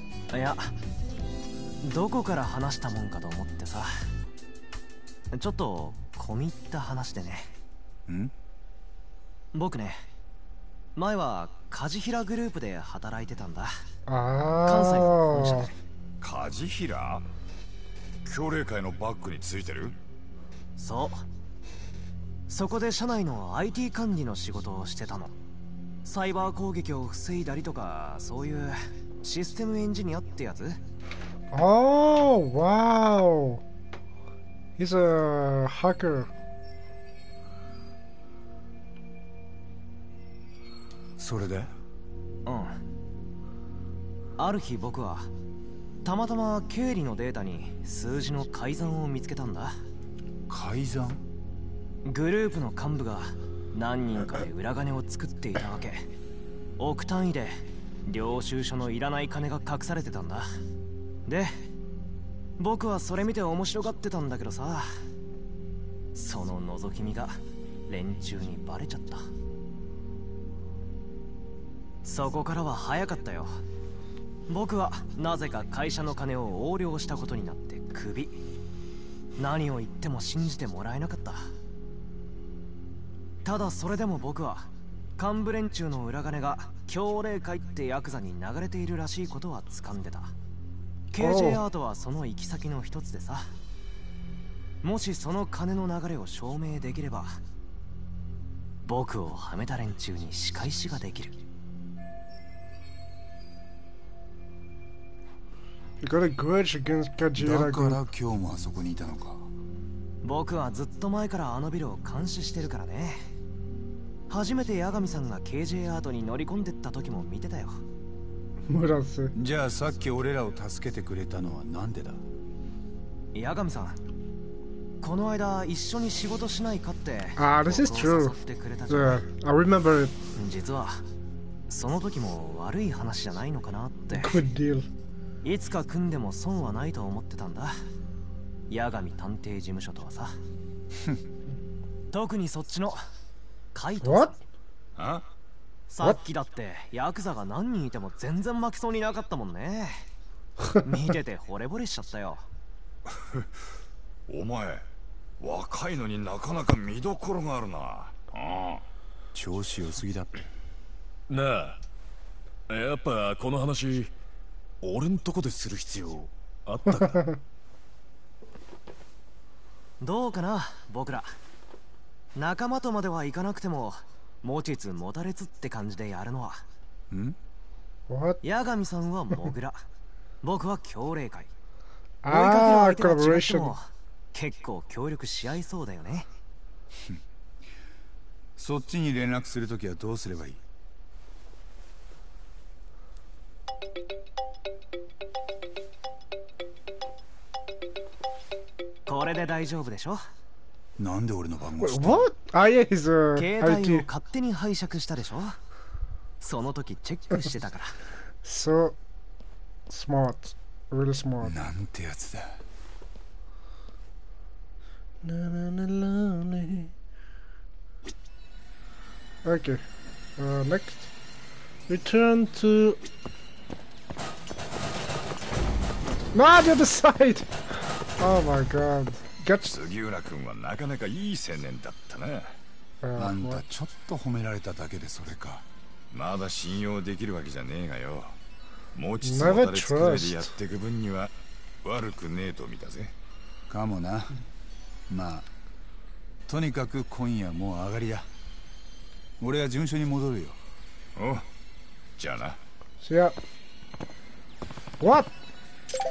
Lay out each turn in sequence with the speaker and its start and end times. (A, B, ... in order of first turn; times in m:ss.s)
0:00.3-0:00.7 A
0:01.8-0:03.9 A
0:05.3-0:07.5 A
0:08.1-0:08.3 B
0:09.5-0:10.0 A
0:11.0-0:13.7 A
0:14.1-0:15.7 C
0:14.6-0:15.7 A
0:16.2-0:17.2 D
0:18.2-0:20.0 D
0:20.8-0:21.2 A
0:22.5-0:25.3 A
0:26.0-0:30.8 A
0:31.5-0:33.6 C
0:34.8-0:36.3 C
0:41.2-0:41.7 B
0:42.4-0:42.8 A
0:44.4-0:45.3 A
0:46.0-0:49.8 A
0:50.5-0:51.2 B
0:52.0-0:56.0 A
0:56.8-1:00.5 A
1:01.3-1:01.5 A
1:02.6-1:04.9 A
1:06.1-1:07.4 A
1:07.9-1:09.2 A
1:12.0-1:13.5 A
1:14.5-1:18.4 A
1:19.4-1:21.5 A
1:23.4-1:30.3 A
1:31.1-1:33.5 A
1:31.2-1:31.6 C
1:34.8-1:37.4 A
1:38.8-1:41.4 A
1:46.0-1:48.0 C
1:47.4-1:49.5 B
1:50.2-1:53.2 A
1:54.3-1:57.8 A
1:58.7-1:59.3 C
1:59.3-2:02.2 B
2:03.3-2:04.0 A
2:05.0-2:09.2 A
2:07.4-2:08.4 C
2:08.9-2:10.2 C
2:10.4-2:11.0 A
2:11.7-2:14.4 A
2:14.1-2:14.9 C
2:15.4-2:17.7 A
2:18.7-2:20.4 A
2:22.1-2:23.0 A
2:23.7-2:24.3 A
2:24.0-2:24.3 C
2:25.0-2:25.2 D
2:25.9-2:30.0 A
2:30.8-2:32.4 A
2:33.2-2:33.5 D
2:34.3-2:34.8 D
2:35.4-2:38.3 D
2:38.4-2:38.8 E
2:39.3-2:40.4 B
2:41.3-2:41.8 E
2:42.7-2:44.1 E
2:44.8-2:47.3 E
2:50.0-2:51.3 A
2:52.4-2:56.6 A
2:57.1-2:57.4 B
2:58.1-2:58.4 C
2:58.4-2:59.8 A
3:00.4-3:01.5 A
3:02.2-3:03.7 C
3:02.3-3:06.3 A
3:08.6-3:10.6 B
3:19.1-3:20.2 A
3:21.0-3:22.3 B
3:21.8-3:24.0 C
3:23.4-3:25.6 A
3:26.4-3:28.0 A
3:28.4-3:29.0 C
3:29.9-3:31.5 C
3:31.4-3:32.6 B
3:35.2-3:36.9 C
3:39.4-3:39.8 C
3:40.4-3:41.1 C
3:41.9-3:43.0 C
3:46.3-3:47.5 C
3:48.2-3:49.7 C
3:49.6-3:52.6 D
3:53.0-3:53.6 C
3:53.2-3:55.6 B
3:56.1-3:58.4 D
3:58.9-4:03.1 D
3:59.2-4:00.5 C
4:03.7-4:04.4 B
4:05.1-4:05.5 B
4:06.5-4:08.3 B
4:09.4-4:10.6 B
4:11.2-4:11.4 D
4:12.2-4:12.6 D
4:13.0-4:13.4 C
4:15.0-4:15.3 C